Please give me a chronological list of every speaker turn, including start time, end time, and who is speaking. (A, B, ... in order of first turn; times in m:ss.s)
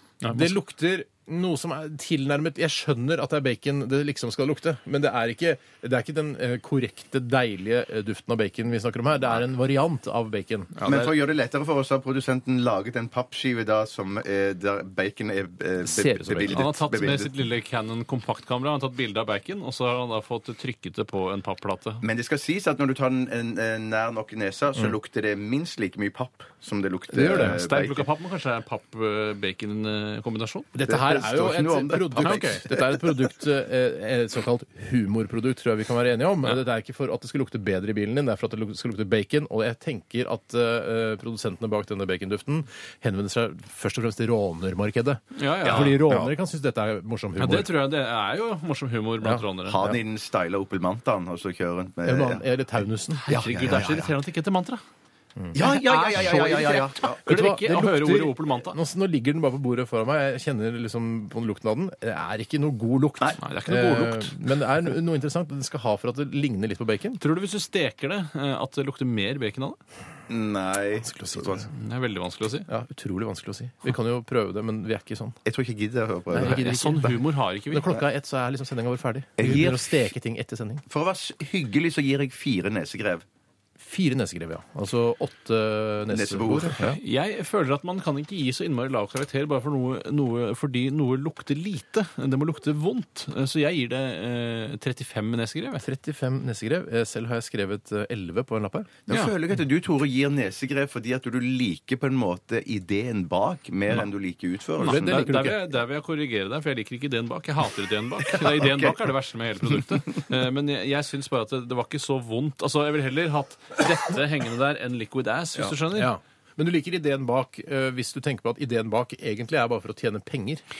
0:00.2-0:00.6 A
0:00.3-0:10.8 B
0:10.8-0:11.1 A
0:10.8-0:17.3 C
0:15.8-0:16.6 B
0:16.4-0:22.0 A
0:22.0-0:28.1 C
0:27.1-0:27.6 B
0:27.2-0:30.7 A
0:30.7-0:47.7 B
0:30.8-0:33.2 C
0:32.2-0:32.6 A
0:45.3-0:46.1 A
0:45.6-0:46.3 C
0:47.4-0:49.8 A
0:49.2-0:50.0 B
0:49.7-0:52.4 C
0:52.0-0:53.2 B
0:53.2-0:54.8 A
0:53.3-0:54.1 C
0:55.5-0:57.2 C
0:55.6-0:58.8 A
0:57.2-1:07.2 B
1:03.4-1:04.3 A
1:07.2-1:09.8 A
1:10.3-1:11.6 C
1:11.0-1:11.6 B
1:11.7-1:12.7 A
1:12.7-1:15.4 B
1:15.4-1:17.1 C
1:16.3-1:17.2 B
1:16.4-1:17.9 A
1:17.7-1:20.8 B
1:19.4-1:20.0 C
1:20.9-1:23.2 C
1:23.8-1:27.0 B
1:26.1-1:26.8 C
1:26.8-1:35.8 A
1:35.8-1:38.9 B
1:39.1-1:45.2 C
1:39.1-1:39.3 A
1:44.8-1:56.1 A
1:44.8-1:45.6 B
1:48.2-1:49.0 C
1:55.9-2:00.6 B